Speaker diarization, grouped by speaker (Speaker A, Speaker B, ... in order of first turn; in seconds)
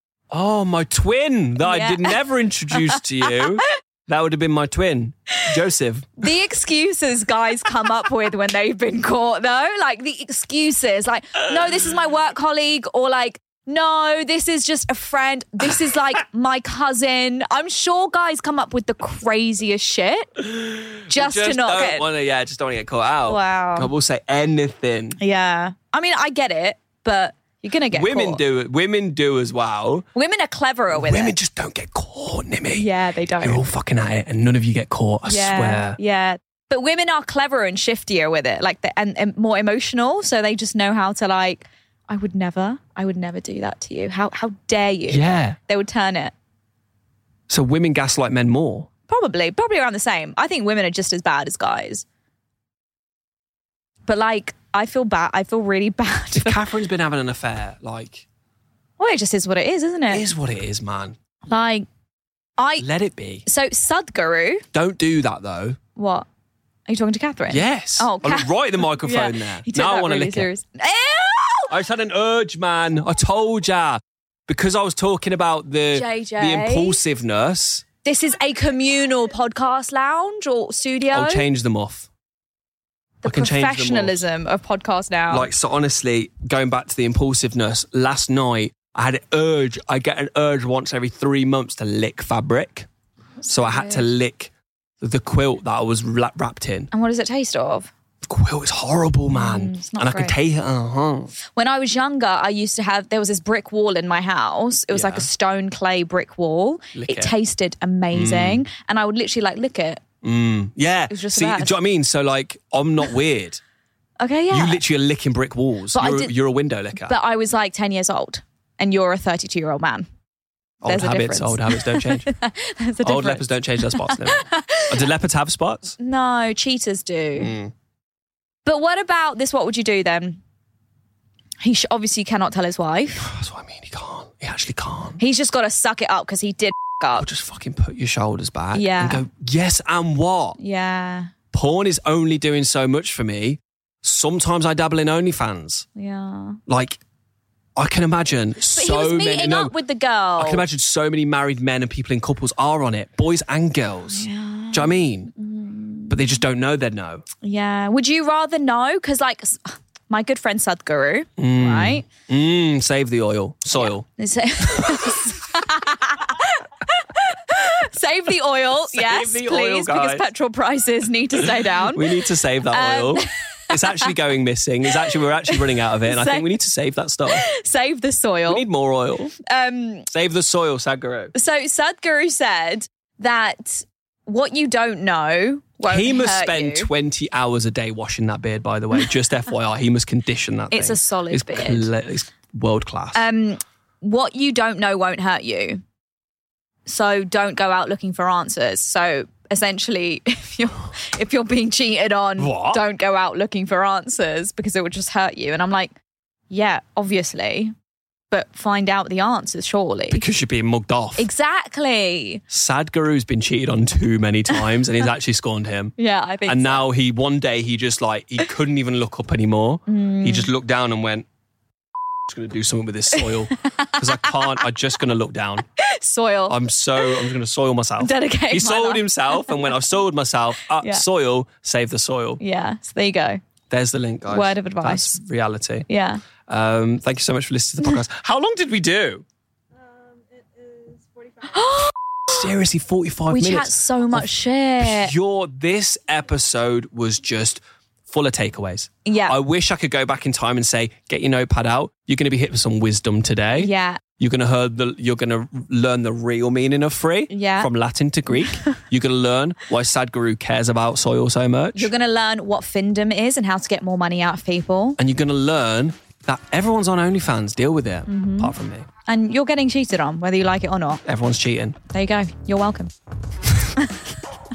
Speaker A: 0.3-6.3, 20.4-25.2, 27.9-30.1, 30.9-32.9, 33.4-36.0, 45.1-45.6, 47.5-48.9, 56.4-58.3, 60.1-61.2, 62.8-63.5, 64.7-65.8, 67.5-70.5, 71.7-77.8, 81.1-82.1, 83.2-84.2, 85.3-92.9, 93.5-96.9, 98.2-101.3, 104.9-105.3, 106.9-107.3, 108.1-108.6, 110.2-113.6, 114.5-117.2, 120.8-122.3, 123.0-126.0, 127.4-127.7, 133.2-135.2, 137.2-140.6, 141.5-145.9, 146.7-147.0, 147.8-149.7, 150.4-155.3, 156.1-157.2, 161.4-164.1, 164.6-165.2, 168.9-170.3, 171.4-177.4, 178.5-179.3, 180.1-181.3, 185.9-193.2, 202.4-202.8, 210.1-211.3, 212.5-215.9, 216.5-221.3, 222.3-225.6, 226.5-232.4, 233.7-235.9, 236.5-239.2, 242.3-244.3, 244.8-261.9, 265.0-268.9, 271.1-271.8
Speaker B: 1.6-3.6, 6.2-20.3, 21.1-22.1, 23.2-23.9, 25.2-28.4, 30.1-31.3, 32.8-33.6, 35.3-46.3, 49.1-52.0, 54.1-56.7, 59.0-60.3, 61.5-61.9, 62.6-62.9, 63.5-64.7, 66.0-66.3, 66.9-71.7, 75.9-77.0, 78.0-81.5, 83.2-85.5, 93.4-94.1, 96.9-97.9, 99.3-100.4, 101.5-110.0, 111.1-111.8, 114.2-114.8, 115.9-116.3, 117.0-120.1, 120.8-125.1, 126.0-127.5, 128.7-130.4, 131.6-133.3, 135.2-137.3, 138.7-139.2, 140.6-141.3, 146.0-146.6, 148.7-150.7, 154.1-156.4, 157.4-162.1, 163.8-174.1, 174.9-176.5, 177.3-178.7, 179.4-180.1, 181.3-186.9, 190.7-191.9, 193.1-195.8, 196.9-205.9, 206.5-207.7, 208.3-210.2, 211.2-212.4, 216.0-216.8, 219.9-220.5, 223.1-224.7, 225.8-227.3, 228.0-229.7, 230.8-231.0, 232.4-233.4, 234.3-235.2, 235.9-236.2, 241.4-241.9, 243.3-245.1, 249.1-249.4, 253.6-254.0, 257.3-257.7, 258.3-258.8, 261.8-265.0, 268.1-268.5, 269.1-271.0, 271.9-272.9, 273.8-274.0